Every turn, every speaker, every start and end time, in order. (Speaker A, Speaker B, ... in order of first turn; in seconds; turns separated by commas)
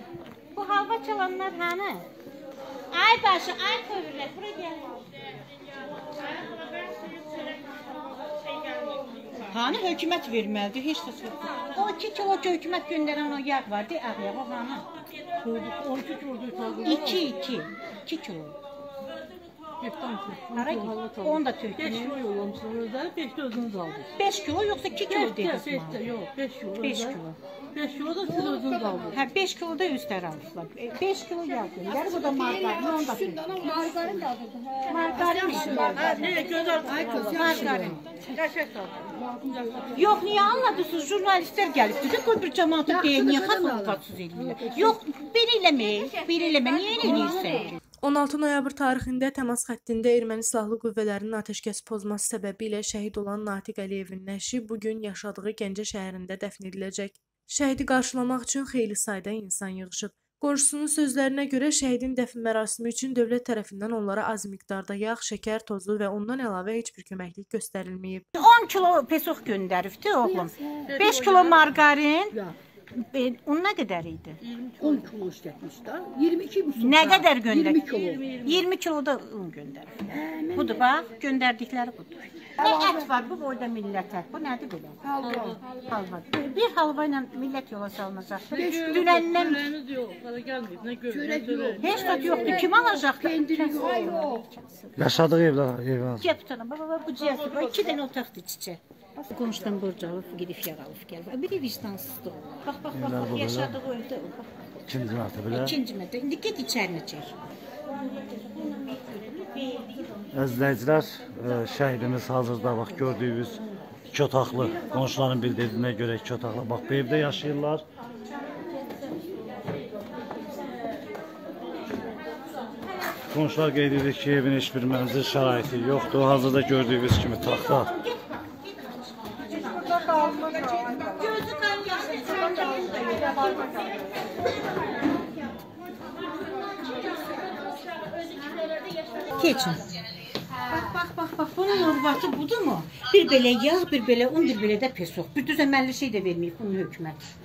Speaker A: 0.5-2.1, Speaker A: 2.9-5.1, Speaker A: 9.4-14.9, Speaker B: 15.4-16.8, Speaker A: 16.7-18.6, Speaker B: 19.8-21.1, Speaker A: 20.5-22.2, Speaker B: 22.0-24.1, Speaker A: 24.1-26.1, Speaker B: 25.3-26.9, Speaker A: 26.8-27.4, Speaker B: 27.7-29.1, Speaker A: 29.1-38.6, Speaker B: 35.9-37.3, Speaker A: 39.9-47.8, Speaker C: 48.0-68.2, Speaker A: 68.3-74.4, Speaker B: 74.6-75.1, Speaker D: 74.9-76.8, Speaker A: 76.7-89.7, Speaker B: 77.8-78.4, Speaker D: 80.2-80.5, Speaker B: 85.2-85.6, Speaker B: 89.6-91.8, Speaker A: 91.8-95.0, Speaker E: 95.0-96.2, Speaker A: 96.2-104.7, Speaker E: 102.9-103.8, Speaker E: 104.8-105.7, Speaker A: 105.5-107.3, Speaker A: 108.3-110.1, Speaker E: 110.3-117.8, Speaker E: 123.3-127.9, Speaker A: 127.6-128.6, Speaker A: 129.5-134.1, Speaker A: 139.2-140.0, Speaker A: 140.5-147.3